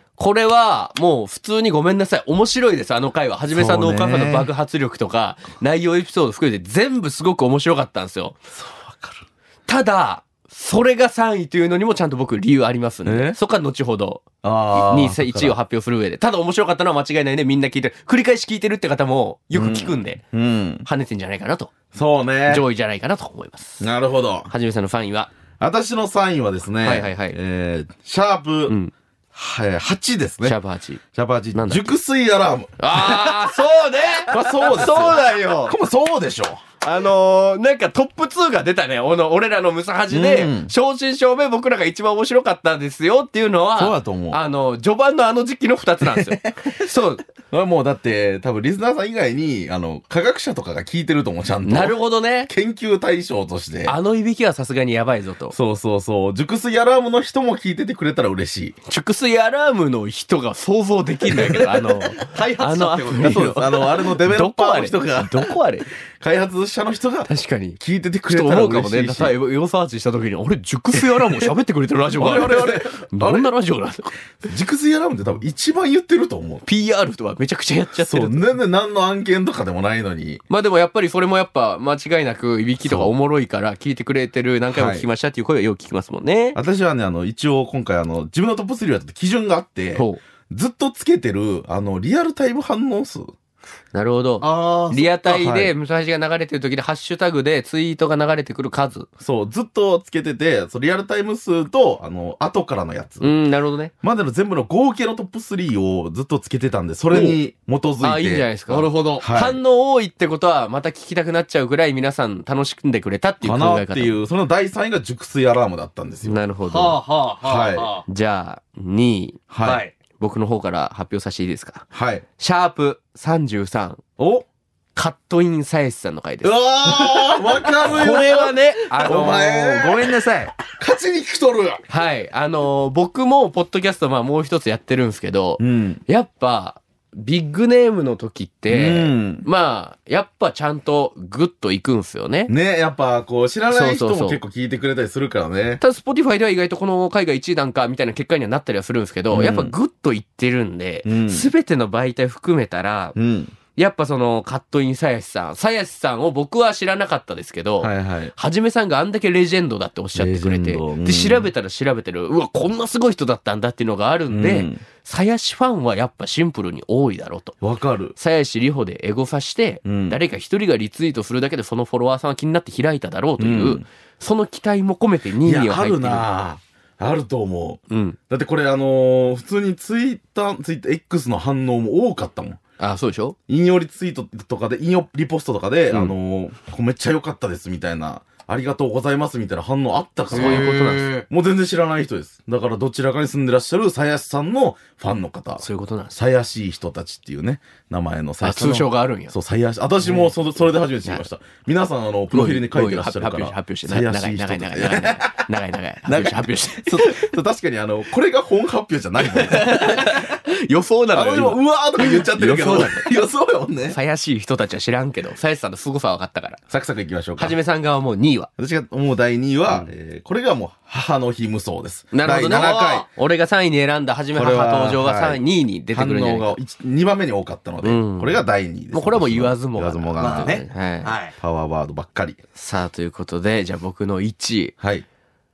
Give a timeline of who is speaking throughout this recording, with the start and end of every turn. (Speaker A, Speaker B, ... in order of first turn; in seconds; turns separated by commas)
Speaker A: 0.2-8.4, Speaker B: 3.5-4.5, Speaker B: 8.5-9.2, Speaker A: 9.7-20.2, Speaker B: 13.1-13.4, Speaker B: 14.4-15.6, Speaker B: 19.5-20.9, Speaker A: 20.9-21.7, Speaker B: 21.9-22.6, Speaker A: 22.5-23.9, Speaker B: 23.8-24.5, Speaker A: 24.5-25.3, Speaker B: 25.6-28.8, Speaker A: 26.8-27.4, Speaker A: 28.7-28.9, Speaker B: 29.3-30.6, Speaker A: 30.4-31.0, Speaker B: 31.1-33.4, Speaker A: 31.5-31.9, Speaker A: 32.8-35.8, Speaker B: 34.3-36.6, Speaker A: 36.8-47.2, Speaker B: 40.1-40.7, Speaker B: 43.8-44.4, Speaker B: 46.0-46.5, Speaker B: 47.5-52.0, Speaker A: 51.6-52.5, Speaker B: 52.5-54.0, Speaker A: 53.9-55.5, Speaker B: 55.5-58.8, Speaker A: 58.9-65.9, Speaker C: 62.2-63.6, Speaker B: 63.2-65.6, Speaker B: 66.2-69.3, Speaker A: 67.3-74.2, Speaker B: 70.9-71.5, Speaker B: 72.2-73.5, Speaker B: 74.4-76.7, Speaker A: 76.7-78.5, Speaker B: 78.0-80.4, Speaker A: 80.5-86.6, Speaker B: 82.8-83.1, Speaker B: 84.7-85.1, Speaker B: 86.5-93.3, Speaker A: 90.0-90.2, Speaker A: 93.9-99.1, Speaker C: 94.4-95.1, Speaker B: 95.2-95.7, Speaker B: 99.2-103.3, Speaker A: 103.2-103.9, Speaker B: 104.0-108.5, Speaker A: 108.0-114.2, Speaker C: 108.7-109.3, Speaker B: 109.2-109.6, Speaker B: 113.4-116.4, Speaker A: 116.2-117.0, Speaker C: 116.7-118.0, Speaker B: 117.4-117.9, Speaker A: 118.1-119.5, Speaker B: 119.5-119.8, Speaker C: 119.6-119.9, Speaker A: 120.1-121.9, Speaker B: 121.9-122.2, Speaker A: 122.4-124.0, Speaker B: 124.2-124.5, Speaker A: 125.0-130.5, Speaker B: 126.4-131.8, Speaker A: 131.9-142.5, Speaker B: 135.6-136.0, Speaker B: 138.7-139.5, Speaker B: 142.5-145.8, Speaker A: 143.7-144.4, Speaker A: 145.8-153.2, Speaker B: 149.3-149.7, Speaker B: 151.1-151.5, Speaker B: 153.2-153.5, Speaker A: 153.8-167.6, Speaker B: 157.8-158.3, Speaker B: 160.2-161.5, Speaker B: 164.3-164.8, Speaker B: 167.6-168.2, Speaker A: 168.2-176.3, Speaker B: 169.8-170.2, Speaker B: 173.4-173.8, Speaker B: 175.4-182.6, Speaker A: 177.9-178.2, Speaker A: 182.8-183.4, Speaker B: 183.5-205.4, Speaker A: 190.3-191.2, Speaker C: 190.3-191.3, Speaker A: 195.6-196.2, Speaker A: 198.4-199.3, Speaker A: 200.0-200.3, Speaker A: 202.3-207.3, Speaker B: 206.1-210.3, Speaker A: 209.2-213.1, Speaker B: 211.1-214.0, Speaker A: 213.9-216.6, Speaker B: 216.7-217.6, Speaker A: 217.4-218.5, Speaker B: 218.6-223.1, Speaker A: 222.1-226.6, Speaker C: 222.3-223.1, Speaker B: 224.3-230.6, Speaker A: 227.8-231.2, Speaker C: 230.2-231.4, Speaker B: 231.4-232.4, Speaker A: 232.6-234.7, Speaker B: 234.8-235.1